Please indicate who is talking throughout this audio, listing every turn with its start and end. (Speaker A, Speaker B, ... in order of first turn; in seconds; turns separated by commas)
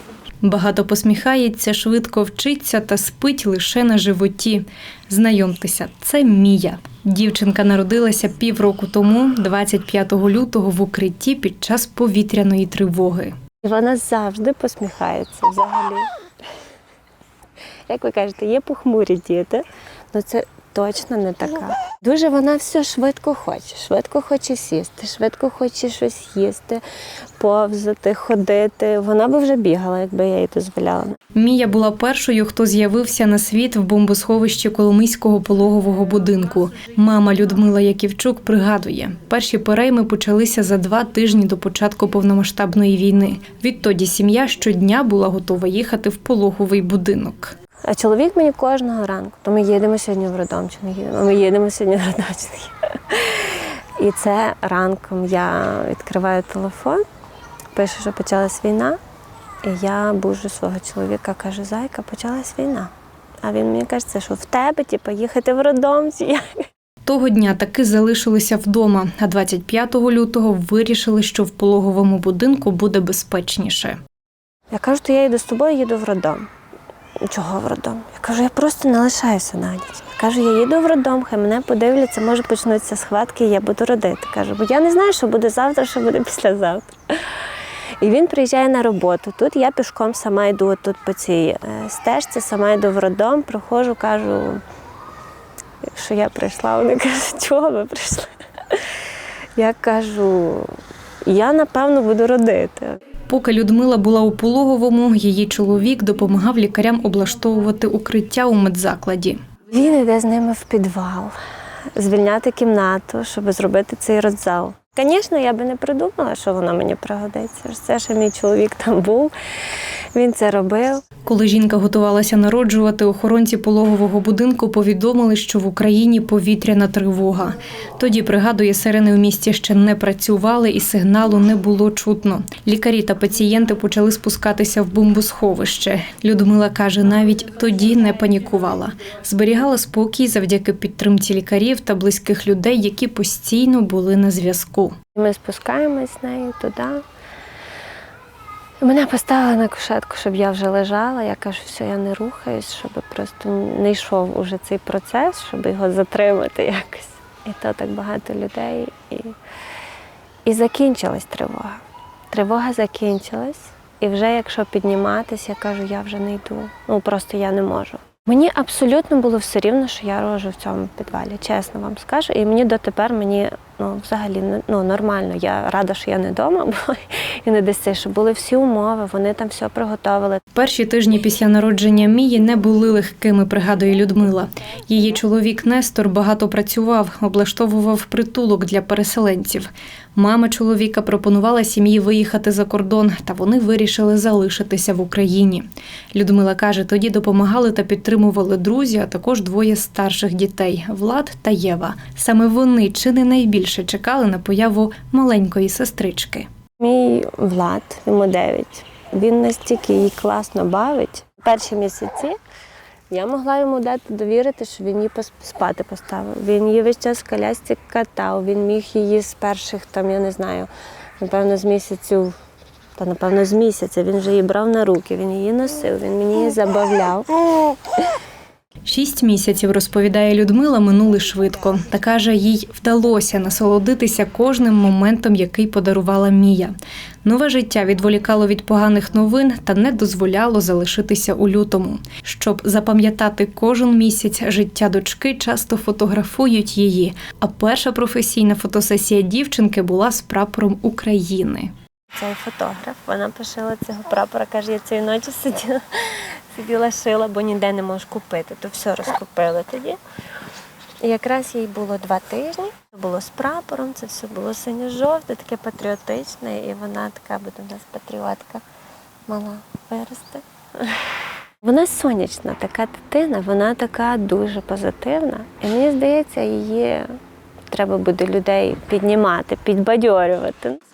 Speaker A: 0.4-13.4, Speaker B: 13.6-16.1, Speaker B: 17.9-26.8, Speaker B: 27.4-31.2, Speaker A: 31.3-47.5, Speaker B: 47.9-57.0, Speaker B: 57.7-59.0, Speaker B: 59.6-62.9, Speaker B: 63.4-66.5, Speaker A: 67.0-74.0, Speaker B: 74.7-76.5, Speaker B: 77.3-87.0, Speaker B: 88.0-94.6, Speaker B: 95.9-98.8, Speaker B: 99.5-100.7, Speaker B: 101.3-103.0, Speaker A: 103.3-109.4, Speaker B: 109.7-111.3, Speaker B: 111.9-119.3, Speaker B: 120.1-121.0, Speaker A: 121.2-144.9, Speaker B: 145.1-147.0, Speaker B: 148.8-159.3, Speaker B: 160.4-180.4, Speaker A: 180.5-206.5, Speaker B: 206.8-212.4, Speaker B: 213.1-220.7, Speaker B: 221.2-222.3, Speaker B: 223.0-227.3, Speaker A: 228.8-251.7, Speaker B: 252.1-260.0, Speaker B: 261.0-268.6, Speaker B: 269.3-271.0, Speaker B: 271.6-277.1, Speaker B: 277.7-280.8